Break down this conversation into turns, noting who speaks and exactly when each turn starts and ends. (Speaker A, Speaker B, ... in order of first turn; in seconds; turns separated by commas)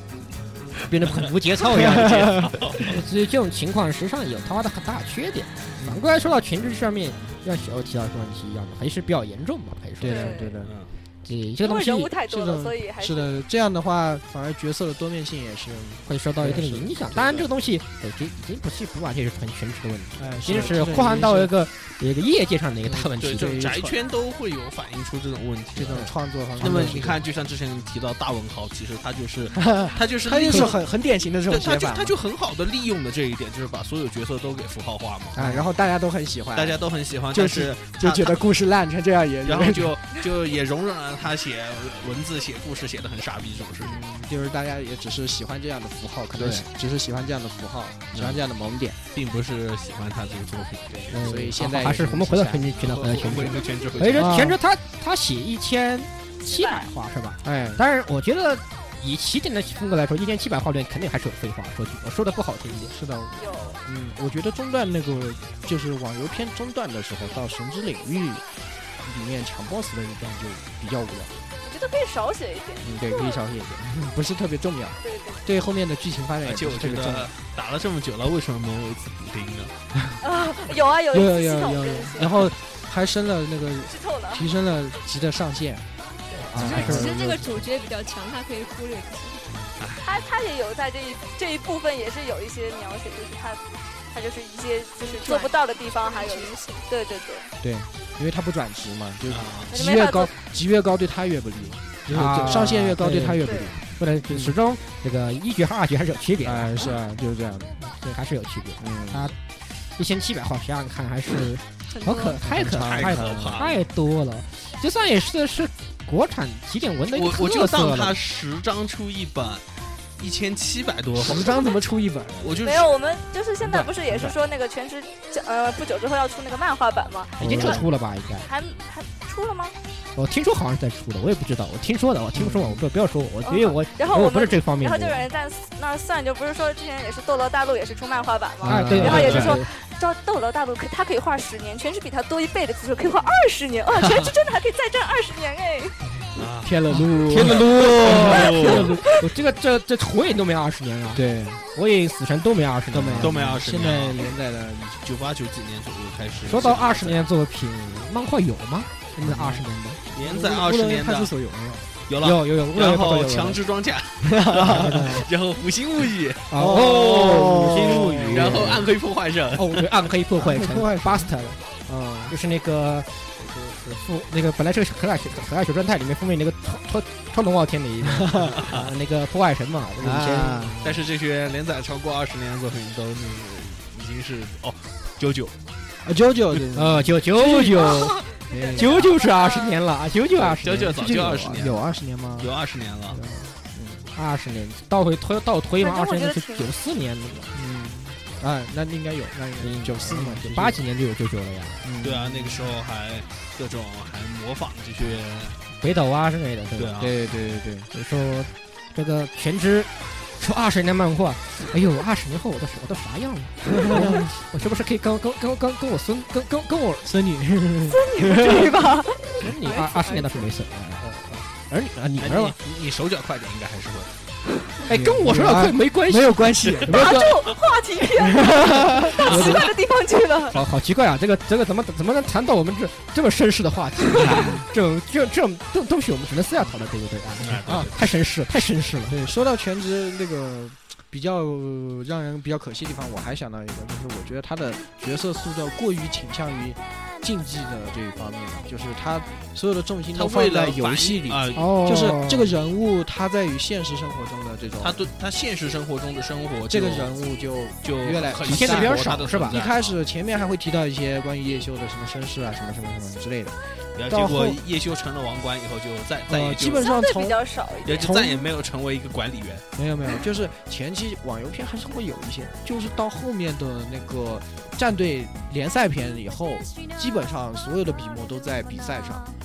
Speaker A: 0.8-10.4, Speaker B: 1.7-2.7, Speaker C: 1.9-2.9, Speaker B: 5.8-6.0, Speaker B: 10.0-10.7, Speaker D: 10.0-10.6, Speaker C: 10.6-10.9, Speaker A: 11.2-12.1, Speaker D: 11.6-13.4, Speaker B: 12.2-17.4, Speaker A: 16.1-23.6, Speaker B: 20.2-21.5, Speaker B: 22.8-24.0, Speaker C: 23.2-30.8, Speaker B: 25.8-27.2, Speaker A: 25.9-27.0, Speaker B: 29.6-32.2, Speaker C: 31.5-35.6, Speaker B: 35.4-40.0, Speaker C: 36.5-38.4, Speaker C: 39.5-44.0, Speaker B: 43.8-49.0, Speaker C: 48.1-48.4, Speaker C: 49.1-51.1, Speaker B: 50.9-52.7, Speaker A: 51.1-62.9, Speaker C: 52.8-54.4, Speaker B: 54.1-54.6, Speaker D: 56.5-56.9, Speaker B: 57.4-57.8, Speaker B: 62.9-68.5, Speaker D: 63.4-63.8, Speaker B: 69.0-71.4, Speaker D: 71.6-73.4, Speaker B: 72.8-77.3, Speaker D: 75.0-75.5, Speaker C: 76.4-79.7, Speaker D: 80.2-82.5, Speaker B: 81.1-85.9, Speaker D: 83.9-84.5, Speaker E: 86.4-89.5, Speaker A: 86.5-87.1, Speaker B: 86.5-87.7, Speaker C: 89.8-90.3, Speaker D: 90.0-93.6, Speaker D: 94.1-97.5, Speaker E: 95.0-96.8, Speaker B: 97.6-104.5, Speaker C: 99.3-99.7, Speaker D: 99.7-100.3, Speaker A: 102.1-106.7, Speaker D: 103.4-103.8, Speaker B: 106.4-107.8, Speaker A: 107.8-109.4, Speaker B: 108.8-109.2, Speaker A: 110.0-118.2, Speaker E: 111.9-112.4, Speaker B: 112.4-113.7, Speaker C: 112.7-113.8, Speaker C: 117.1-119.7, Speaker C: 120.2-121.7, Speaker B: 121.2-122.6, Speaker C: 122.4-122.9, Speaker D: 122.6-127.9, Speaker B: 123.7-124.4, Speaker B: 127.4-127.9, Speaker A: 127.4-128.5, Speaker D: 128.4-129.8, Speaker A: 130.2-135.3, Speaker B: 132.3-132.8, Speaker D: 133.4-146.0, Speaker B: 138.6-139.6, Speaker A: 138.6-139.7, Speaker C: 139.0-139.5, Speaker B: 143.9-144.3, Speaker B: 146.2-149.0, Speaker C: 146.4-146.8, Speaker A: 147.2-151.2, Speaker C: 147.3-148.9, Speaker B: 151.1-151.6, Speaker A: 151.7-153.3, Speaker B: 152.9-155.0, Speaker C: 153.2-154.3, Speaker C: 155.0-157.2, Speaker A: 156.4-160.0, Speaker B: 159.2-161.9, Speaker C: 160.1-161.3, Speaker C: 162.1-169.8, Speaker A: 162.2-163.6, Speaker B: 164.3-165.2, Speaker A: 164.7-165.1, Speaker A: 166.5-168.8, Speaker B: 166.6-168.9, Speaker A: 169.6-171.6, Speaker B: 170.4-171.3, Speaker B: 171.9-172.3, Speaker A: 172.3-180.8, Speaker B: 178.0-178.6, Speaker C: 178.6-178.9, Speaker B: 180.0-181.0, Speaker C: 180.8-185.6, Speaker B: 186.0-189.1, Speaker A: 186.8-188.2, Speaker D: 188.5-189.8, Speaker A: 188.8-191.1, Speaker B: 190.4-192.5, Speaker C: 190.4-191.8, Speaker C: 192.4-193.2, Speaker A: 193.1-193.6, Speaker B: 193.7-194.1, Speaker A: 194.1-197.5, Speaker D: 195.8-196.7, Speaker B: 197.5-200.8, Speaker A: 199.6-201.8, Speaker B: 201.8-202.7, Speaker C: 202.0-205.6, Speaker A: 205.8-206.9, Speaker C: 206.8-207.2, Speaker B: 207.0-207.9, Speaker A: 207.9-217.1, Speaker B: 213.8-214.2, Speaker B: 217.0-218.8, Speaker D: 217.9-220.2, Speaker A: 219.4-222.6, Speaker C: 222.2-224.1, Speaker A: 224.9-227.4, Speaker B: 224.9-227.2, Speaker D: 226.9-230.6, Speaker B: 228.3-229.3, Speaker A: 228.6-229.7, Speaker A: 230.5-239.2, Speaker B: 234.2-234.6, Speaker C: 237.4-238.1, Speaker B: 237.7-237.9, Speaker B: 239.1-255.1, Speaker C: 250.1-251.7, Speaker A: 251.6-252.5, Speaker C: 254.8-257.1, Speaker B: 256.7-263.6, Speaker C: 257.8-259.9, Speaker A: 258.5-259.6, Speaker C: 264.0-266.9, Speaker A: 264.1-264.5, Speaker B: 266.3-268.4, Speaker D: 266.7-268.2, Speaker C: 267.8-269.6, Speaker B: 269.8-279.3